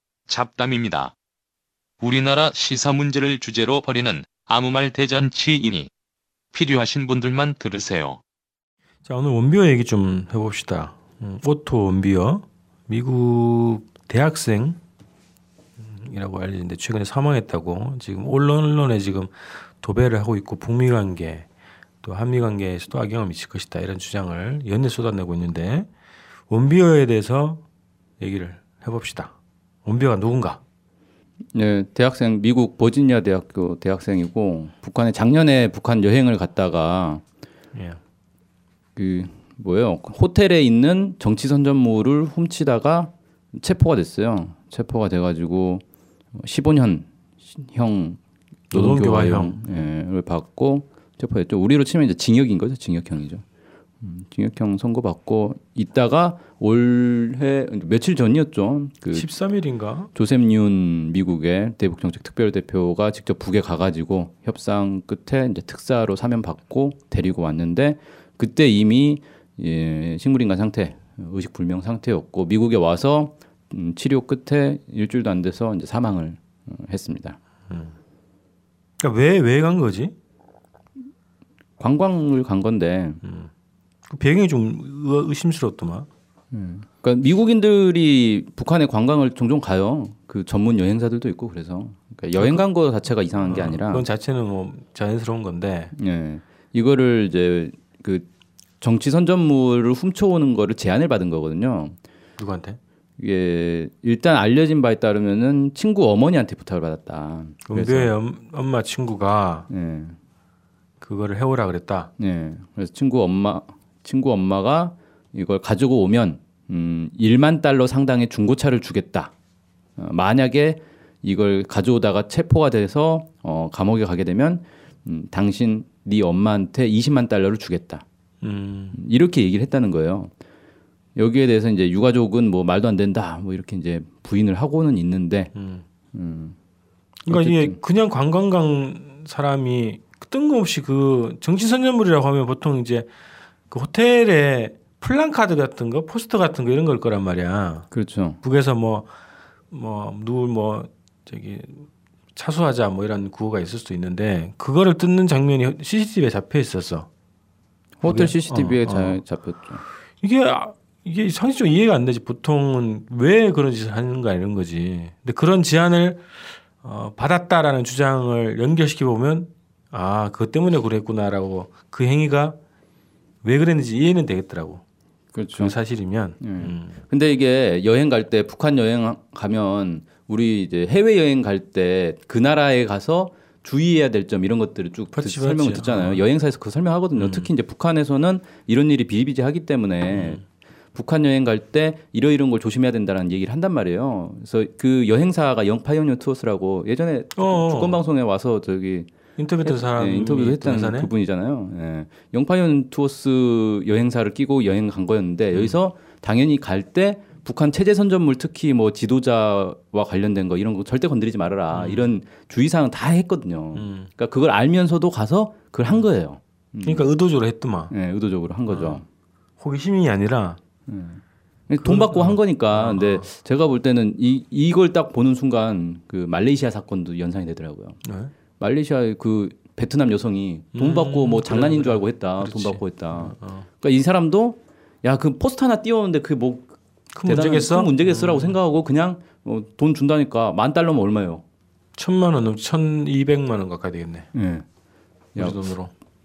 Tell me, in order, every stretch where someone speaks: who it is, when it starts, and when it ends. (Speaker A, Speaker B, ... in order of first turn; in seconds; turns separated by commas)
Speaker A: 0.3-1.1, Speaker A: 2.0-5.9, Speaker A: 6.5-8.2, Speaker B: 9.1-14.8, Speaker B: 15.8-21.5, Speaker B: 22.0-25.9, Speaker B: 26.5-27.6, Speaker B: 28.2-29.3, Speaker B: 29.8-30.6, Speaker C: 31.5-37.2, Speaker B: 37.7-38.0, Speaker C: 39.0-45.8, Speaker C: 46.3-53.4, Speaker B: 48.7-49.5, Speaker C: 54.0-59.3, Speaker B: 59.1-60.1, Speaker C: 60.1-77.4, Speaker B: 77.7-77.9, Speaker B: 79.0-80.1, Speaker C: 81.8-83.2, Speaker B: 83.2-83.5, Speaker B: 84.1-86.1, Speaker C: 86.5-94.0, Speaker B: 92.3-92.6, Speaker B: 93.4-95.9, Speaker C: 95.9-98.2, Speaker C: 98.8-102.0, Speaker B: 102.4-102.8, Speaker C: 103.2-108.1, Speaker B: 107.7-109.7, Speaker C: 109.7-110.2, Speaker B: 111.0-112.1, Speaker C: 112.2-119.3, Speaker C: 120.0-128.0, Speaker B: 128.4-129.0, Speaker C: 128.9-130.3, Speaker C: 131.2-135.5, Speaker B: 135.5-135.8, Speaker C: 136.1-136.6, Speaker C: 137.2-137.8, Speaker B: 137.3-143.1, Speaker B: 143.7-147.9, Speaker C: 147.9-148.4, Speaker B: 148.4-149.1, Speaker B: 149.7-157.1, Speaker C: 158.0-159.8, Speaker B: 158.0-159.2, Speaker B: 160.2-172.6, Speaker B: 173.4-174.8, Speaker C: 175.3-175.7, Speaker B: 175.5-176.9, Speaker C: 176.4-190.4, Speaker B: 185.1-186.2, Speaker B: 187.2-187.5, Speaker B: 190.1-190.4, Speaker C: 190.9-199.1, Speaker B: 197.3-198.0, Speaker B: 199.4-201.1, Speaker C: 199.6-217.1, Speaker B: 211.7-212.1, Speaker B: 213.7-214.1, Speaker B: 216.8-217.9, Speaker C: 217.9-219.0, Speaker B: 218.7-219.0, Speaker B: 219.6-220.6, Speaker C: 220.9-228.0, Speaker B: 221.8-223.3, Speaker B: 228.0-228.3, Speaker C: 228.6-236.7, Speaker B: 230.7-233.7, Speaker B: 237.1-238.5, Speaker C: 237.2-241.4, Speaker B: 242.0-244.3, Speaker C: 244.3-244.6, Speaker B: 245.4-245.9